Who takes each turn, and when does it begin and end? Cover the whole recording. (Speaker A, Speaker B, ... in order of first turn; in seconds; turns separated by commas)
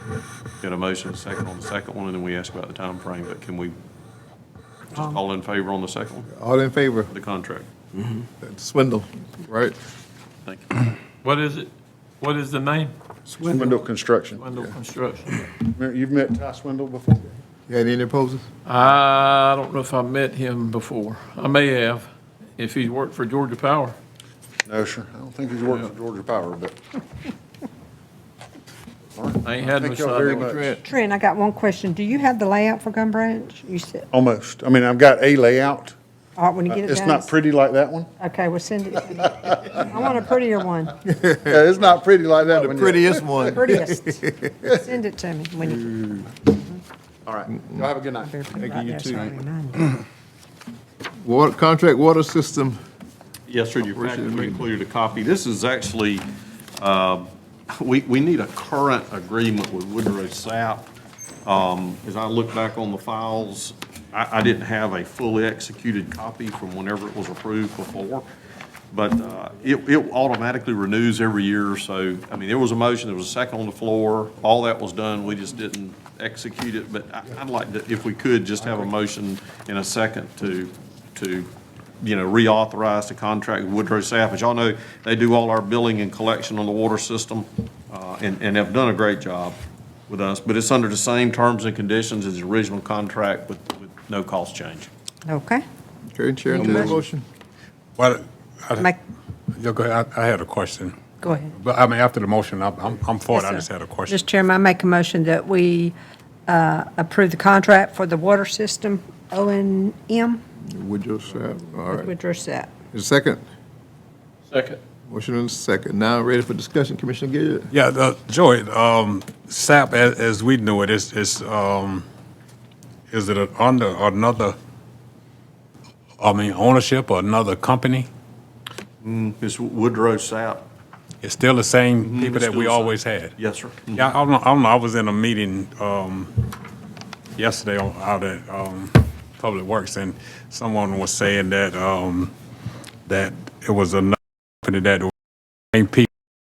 Speaker A: 0.6-3.8, Speaker A: 4.9-6.3, Speaker B: 6.3-7.1, Speaker A: 7.1-7.7, Speaker B: 8.4-9.8, Speaker A: 10.5-10.9, Speaker C: 11.2-13.7, Speaker D: 13.4-14.7, Speaker C: 14.4-15.4, Speaker D: 15.6-17.3, Speaker B: 17.7-18.5, Speaker C: 18.7-22.1, Speaker C: 22.6-24.0, Speaker D: 24.7-26.8, Speaker D: 29.2-30.8, Speaker C: 29.4-30.8, Speaker E: 30.9-34.0, Speaker D: 34.1-36.0, Speaker E: 36.4-37.3, Speaker D: 36.7-38.1, Speaker E: 38.2-41.0, Speaker D: 39.4-40.2, Speaker B: 41.2-41.5, Speaker D: 41.4-43.6, Speaker B: 42.4-44.5, Speaker E: 43.4-46.8, Speaker B: 45.8-46.3, Speaker D: 47.3-48.3, Speaker E: 48.2-50.0, Speaker B: 48.6-49.4, Speaker B: 51.2-52.8, Speaker A: 53.5-56.3, Speaker B: 54.0-54.6, Speaker A: 56.8-60.9, Speaker A: 61.5-68.3, Speaker A: 68.9-81.5, Speaker A: 82.0-94.9, Speaker E: 95.3-95.6, Speaker B: 96.1-97.2, Speaker E: 96.5-97.0, Speaker F: 98.0-98.9, Speaker F: 99.6-101.0, Speaker E: 101.2-101.5, Speaker F: 101.5-104.2, Speaker E: 103.3-105.9, Speaker E: 106.5-110.4, Speaker B: 110.7-112.1, Speaker E: 111.9-112.7, Speaker B: 112.9-113.4, Speaker C: 114.5-114.8, Speaker B: 115.1-117.7, Speaker F: 117.7-122.1, Speaker F: 123.1-124.6, Speaker F: 126.2-128.1, Speaker A: 129.0-130.7, Speaker F: 131.2-133.3, Speaker A: 132.0-134.1, Speaker F: 133.9-136.4, Speaker F: 137.4-142.3, Speaker F: 143.1-145.1, Speaker F: 145.7-146.1